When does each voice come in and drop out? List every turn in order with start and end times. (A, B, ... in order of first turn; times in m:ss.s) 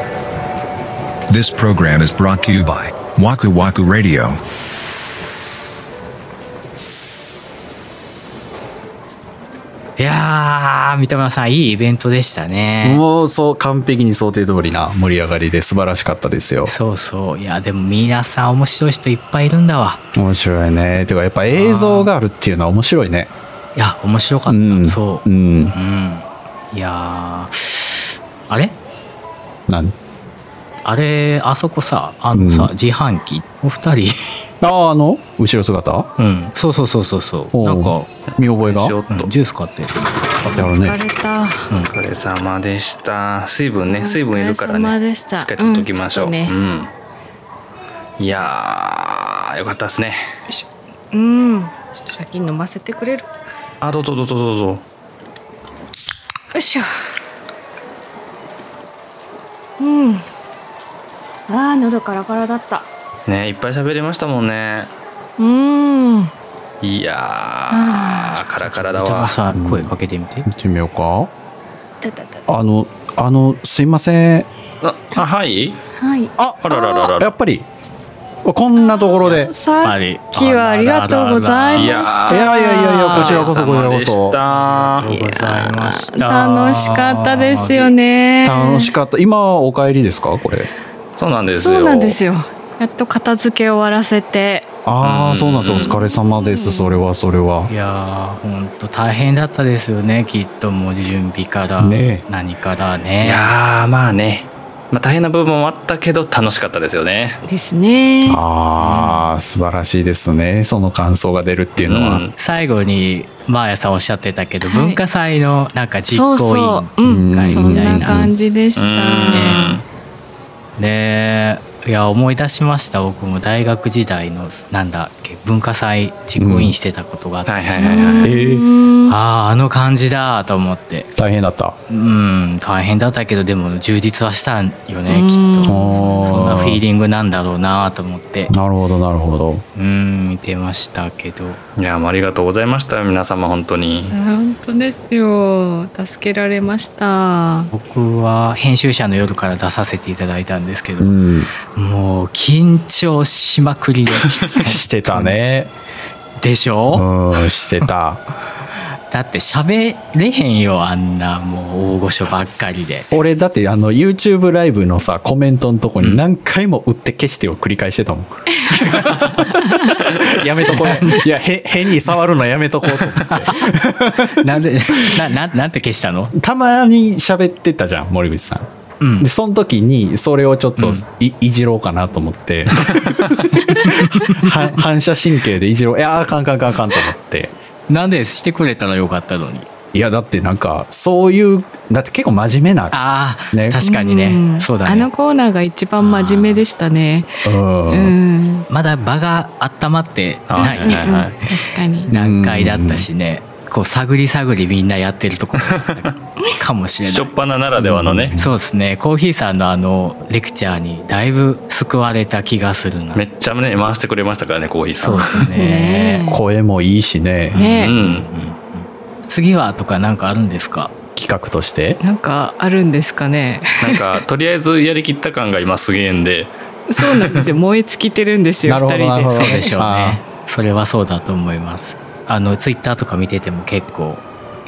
0:01.3-0:04.4 A
0:10.0-0:13.0 B
0:12.8-0:16.7 C
0:16.6-0:20.0 B
0:20.1-0:23.3 C
0:21.5-0:22.1 B
0:23.8-0:28.8 B
0:24.5-0:25.7 C
0:29.7-0:29.9 C
0:30.8-0:34.2 B
0:32.3-0:32.7 C
0:34.6-0:36.1 C
0:36.2-0:38.1 B
0:37.5-0:39.0 C
0:38.3-0:39.3 D
0:39.1-0:40.2 B
0:40.4-0:41.0 C
0:40.4-0:41.7 E
0:41.9-0:46.9 D
0:43.9-0:46.6 E
0:48.2-0:50.2 D
0:50.5-0:53.3 E
0:53.8-0:54.8 D
0:56.5-0:56.9 E
0:59.8-1:00.2 E
1:01.5-1:02.9 E
1:03.3-1:04.9 D
1:05.4-1:06.3 E
1:06.8-1:09.4 D
1:07.7-1:08.4 E
1:08.6-1:10.5 B
1:09.5-1:09.9 C
1:10.4-1:11.3 C
1:12.0-1:12.4 E
1:12.5-1:14.5 C
1:14.8-1:15.8 D
1:16.0-1:17.1 E
1:16.6-1:17.3 D
1:17.2-1:17.7 C
1:18.4-1:19.5 C
1:18.8-1:23.4 E
1:19.8-1:22.1 B
1:21.8-1:25.1 D
1:22.3-1:24.4 C
1:25.0-1:27.9 B
1:25.0-1:28.9 E
1:28.4-1:30.7 C
1:31.2-1:32.2 D
1:31.5-1:34.7 E
1:34.8-1:37.7 C
1:35.0-1:36.0 D
1:35.8-1:37.0 E
1:37.7-1:43.5 B
1:41.8-1:42.2 C
1:43.2-1:47.4 D
1:47.4-1:48.4 E
1:48.2-1:52.2 C
1:48.8-1:49.2 B
1:51.8-1:52.3 D
1:52.4-1:58.2 B
1:54.6-1:55.0 E
1:56.1-1:59.8 E
1:57.0-1:58.3 C
1:58.8-1:59.8 D
1:59.3-1:59.8 B
2:00.8-2:08.3 B
2:06.4-2:06.7 C
2:07.5-2:08.2 D
2:07.7-2:09.2 E
2:08.2-2:08.7 C
2:09.1-2:11.1 B
2:11.2-2:11.8 C
2:11.9-2:18.5 B
2:15.1-2:16.5 E
2:15.6-2:16.8 C
2:18.5-2:19.6 C
2:19.8-2:21.6 B
2:21.8-2:24.1 D
2:24.1-2:27.7 E
2:27.7-2:31.1 B
2:31.0-2:31.5 C
2:31.7-2:35.4 B
2:34.5-2:35.7 C
2:36.4-2:37.0 B
2:36.9-2:38.2 C
2:39.1-2:43.1 B
2:43.1-2:55.2 C
2:50.7-2:51.2 B
2:53.0-2:56.3 B
2:56.3-2:58.7 C
2:59.0-2:59.3 B
2:59.2-3:07.5 C
3:00.8-3:01.0 B
3:03.7-3:04.5 B
3:07.9-3:09.7 B
3:09.9-3:13.0 C
3:12.9-3:15.1 B
3:13.5-3:13.8 C
3:13.8-3:18.7 E
3:16.0-3:16.6 B
3:17.4-3:18.1 C
3:18.7-3:21.2 B
3:20.5-3:21.4 D
3:20.6-3:22.1 E
3:22.1-3:23.1 C
3:22.1-3:27.3 B
3:27.0-3:28.4 D
3:27.8-3:28.5 C
3:28.4-3:33.2 B
3:33.1-3:35.5 D
3:35.0-3:36.3 B
3:35.1-3:36.4 E
3:36.3-3:37.9 C
3:37.5-3:40.9 B
3:37.6-3:38.0 E
3:37.8-3:38.2 D
3:41.2-3:42.0 C
3:42.0-3:44.0 E
3:43.8-3:47.5 D
3:46.9-3:49.7 E
3:48.6-3:50.2 C
3:49.3-3:54.2 B